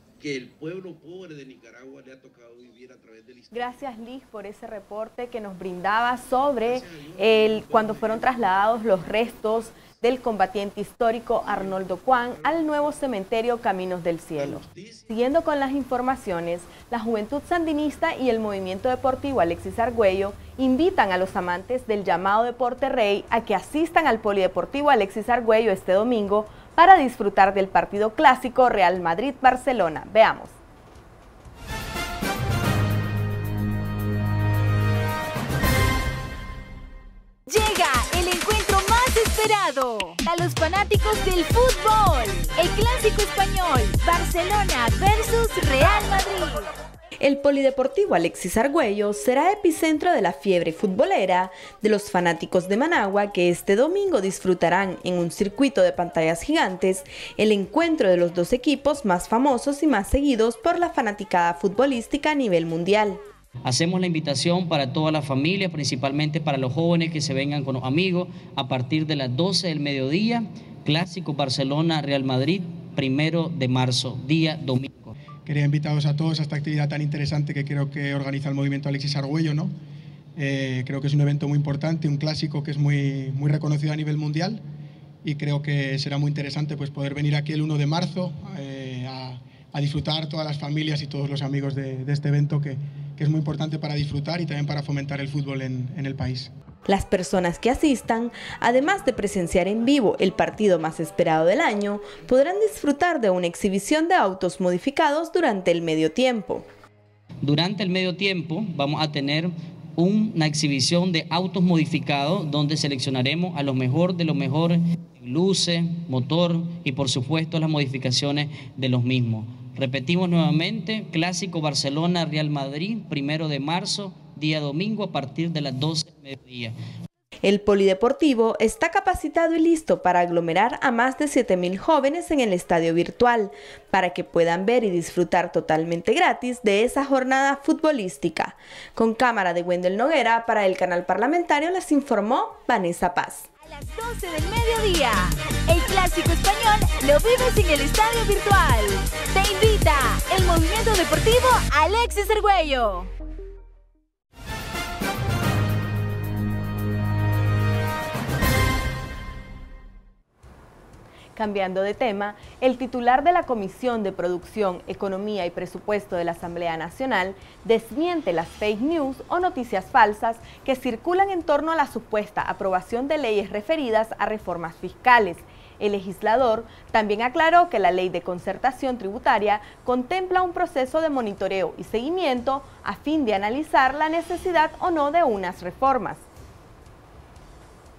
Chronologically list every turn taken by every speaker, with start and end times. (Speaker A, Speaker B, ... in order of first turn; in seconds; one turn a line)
Speaker A: 0.2-3.8
Speaker B: 3.5-30.5
Speaker A: 6.6-8.3
Speaker A: 14.4-15.1
Speaker C: 37.5-46.7
Speaker B: 47.2-63.2
Speaker D: 63.6-75.1
Speaker E: 75.5-79.7
Speaker E: 80.4-84.6
Speaker E: 85.2-96.5
Speaker B: 96.9-106.7
Speaker D: 107.4-126.8
Speaker B: 127.4-143.5
Speaker C: 143.7-153.1
Speaker B: 161.4-186.2